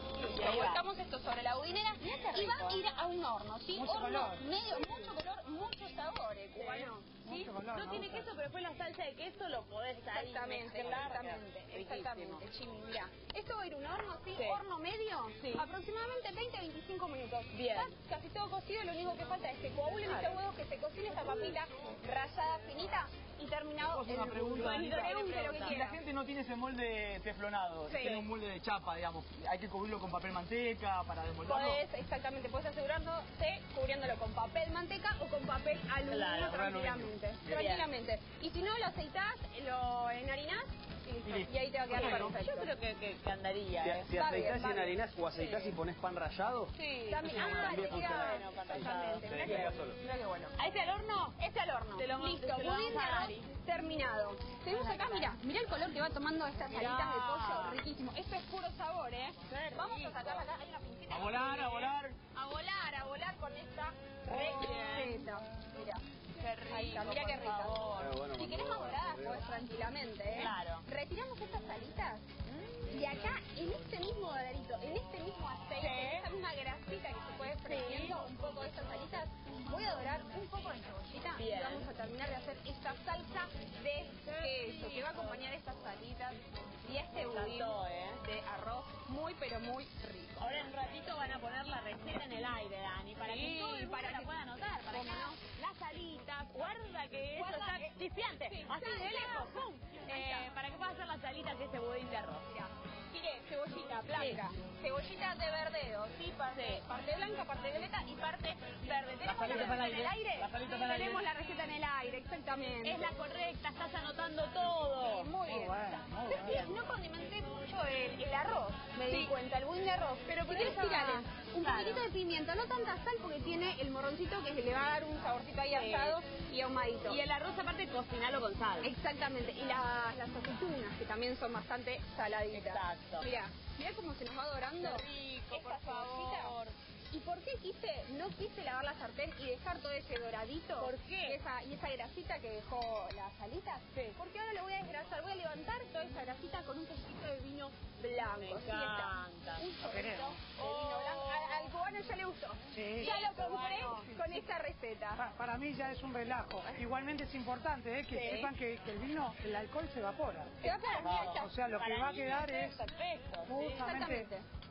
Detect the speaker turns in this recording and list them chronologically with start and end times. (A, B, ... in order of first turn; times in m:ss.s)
0:00.2-0:07.2 A
0:00.3-0:00.8 B
0:02.0-0:02.8 B
0:03.8-0:04.5 C
0:06.5-0:12.4 B
0:07.2-0:08.3 C
0:10.1-0:26.0 A
0:14.4-0:14.6 B
0:15.4-0:15.7 B
0:17.5-0:18.0 B
0:20.0-0:20.4 B
0:21.1-0:21.5 B
0:23.8-0:31.8 D
0:24.1-0:25.8 B
0:27.9-0:28.2 A
0:28.0-0:28.3 B
0:31.4-0:42.7 A
0:36.1-0:36.8 B
0:36.5-0:37.1 D
0:37.5-0:37.9 B
0:41.2-0:42.4 D
0:41.9-0:44.1 B
0:43.8-0:50.0 E
0:44.1-0:45.8 A
0:46.8-0:49.8 B
0:47.1-0:50.6 A
0:50.6-0:51.4 B
0:51.4-1:06.0 A
0:52.0-0:53.5 B
0:54.7-0:55.4 B
0:56.7-0:57.8 B
0:59.5-1:00.5 B
1:01.1-1:02.2 D
1:04.3-1:05.3 B
1:06.4-1:08.2 B
1:06.7-1:12.3 A
1:08.0-1:09.4 E
1:10.3-1:10.8 B
1:12.5-1:13.1 B
1:12.9-1:30.7 A
1:15.8-1:16.3 B
1:17.6-1:18.2 B
1:21.4-1:21.9 B
1:24.2-1:25.4 B
1:27.1-1:28.2 B
1:30.4-1:42.5 B
1:33.2-1:35.4 A
1:37.3-1:40.5 A
1:42.5-1:53.1 A
1:44.1-1:44.4 B
1:46.5-1:46.8 B
1:49.0-1:49.9 B
1:49.2-1:51.3 D
1:52.8-1:56.8 B
1:55.0-2:07.2 A
1:55.5-1:56.4 C
1:59.0-1:59.3 B
2:00.3-2:02.1 B
2:05.7-2:06.2 B
2:07.1-2:08.9 B
2:08.8-2:16.6 A
2:12.5-2:13.3 B
2:14.8-2:16.8 B
2:17.1-2:35.3 A
2:20.8-2:21.4 B
2:28.2-2:29.7 B
2:29.8-2:30.4 C
2:30.4-2:31.7 B
2:32.7-2:33.2 C
2:33.0-2:34.4 B
2:35.2-2:40.6 C
2:38.1-2:38.5 B
2:40.6-2:41.5 A
2:40.6-2:43.9 B
2:41.2-2:42.8 C
2:43.4-2:44.3 C
2:43.8-2:44.4 A